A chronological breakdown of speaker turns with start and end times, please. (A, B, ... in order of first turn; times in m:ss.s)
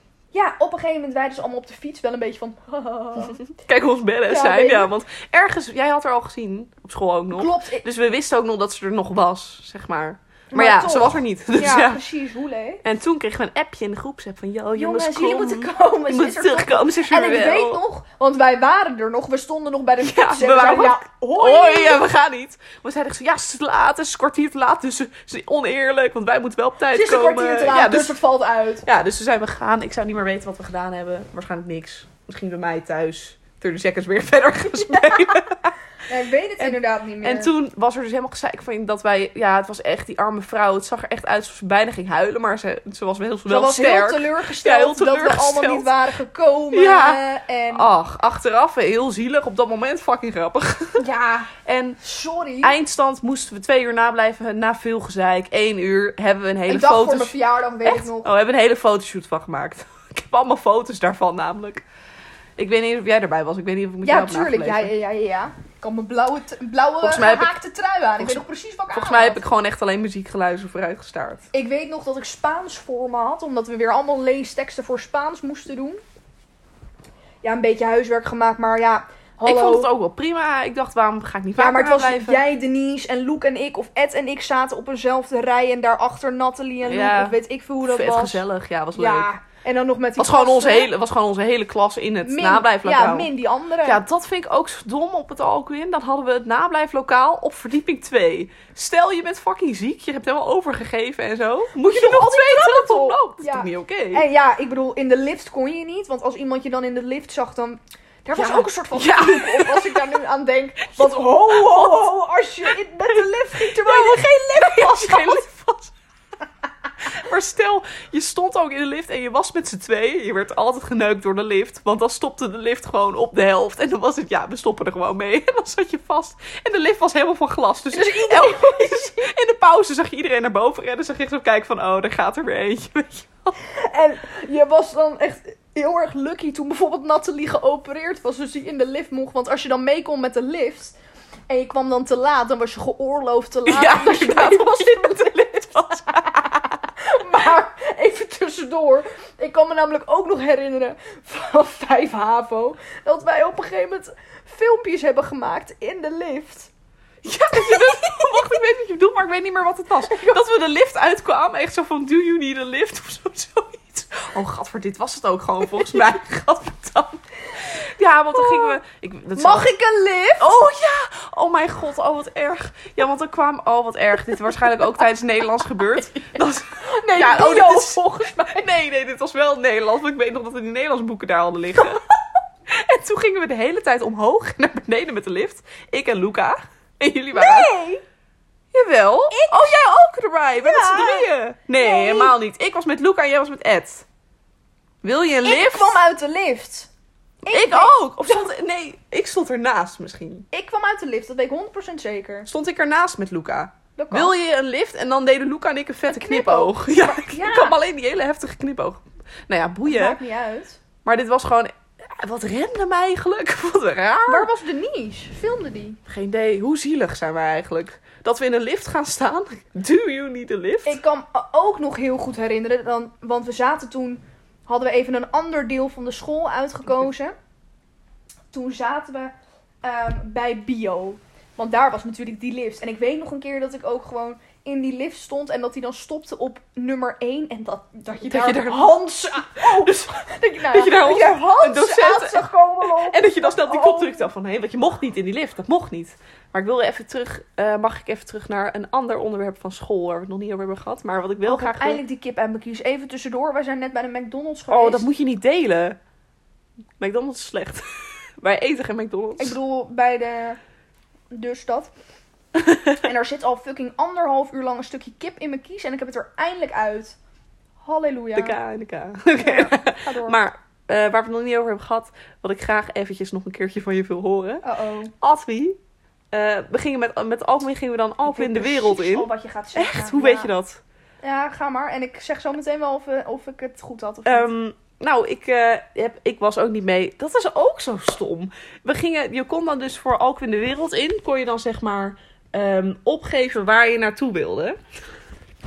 0:00.3-0:03.4 A
0:03.5-0:12.0 B
0:04.3-0:04.9 A
0:07.3-0:07.9 A
0:10.5-0:12.8 A
0:12.8-0:17.8 B
0:14.8-0:22.0 A
0:20.0-0:28.2 B
0:26.9-0:28.8 A
0:28.8-0:35.7 B
0:34.8-0:35.5 A
0:36.0-0:37.5 A
0:36.6-0:45.9 B
0:43.5-0:47.9 A
0:46.7-0:47.2 B
0:47.7-0:51.0 B
0:51.0-0:52.8 A
0:51.6-0:52.0 B
0:52.6-1:01.8 B
0:56.7-0:58.3 A
1:02.6-1:04.9 B
1:04.0-1:09.4 A
1:07.0-1:07.6 B
1:08.2-1:11.5 B
1:11.5-1:16.0 A
1:17.4-1:19.9 A
1:19.4-1:22.4 B
1:21.6-1:28.4 A
1:26.8-1:29.3 B
1:28.9-1:30.9 A
1:30.2-1:33.3 B
1:32.2-1:34.0 A
1:33.8-1:44.2 B
1:41.8-1:55.4 A
1:48.4-1:50.2 B
1:51.0-1:52.1 B
1:53.1-1:55.9 B
1:57.0-2:13.6 B
2:07.9-2:09.3 A
2:13.6-2:20.9 A
2:21.5-2:36.7 A
2:23.6-2:26.6 B
2:37.2-2:49.7 B
2:37.6-2:38.5 A
2:40.1-2:40.4 A
2:48.3-2:48.8 A
2:49.4-2:50.6 A
2:50.4-3:02.0 B
2:56.3-2:58.6 A
3:02.7-3:07.7 B
3:07.3-3:08.0 A
3:08.7-3:14.1 B
3:09.3-3:09.9 A
3:10.5-3:12.4 A
3:15.0-3:16.0 B
3:15.4-3:16.9 A
3:17.4-3:18.5 A
3:17.5-3:20.5 B
3:20.5-3:22.5 A
3:22.5-3:30.2 B
3:24.0-3:24.3 A
3:26.1-3:27.8 A
3:29.9-3:30.8 A
3:31.0-3:34.5 B
3:34.3-3:36.0 A
3:36.1-3:41.0 B
3:40.8-3:47.4 A
3:48.5-4:04.3 A
3:58.2-4:12.0 B
4:11.4-4:15.1 A
4:14.7-4:16.0 B
4:17.0-4:19.6 B
4:19.4-4:20.6 A
4:21.3-4:21.9 A
4:22.6-4:22.9 B
4:23.0-4:27.2 A
4:27.8-4:28.6 A
4:28.4-4:34.6 B
4:29.4-4:30.4 A
4:34.6-4:35.1 A
4:35.2-4:35.8 B
4:36.3-4:40.8 B
4:38.2-4:40.5 A
4:41.2-4:44.5 A
4:44.2-4:54.8 B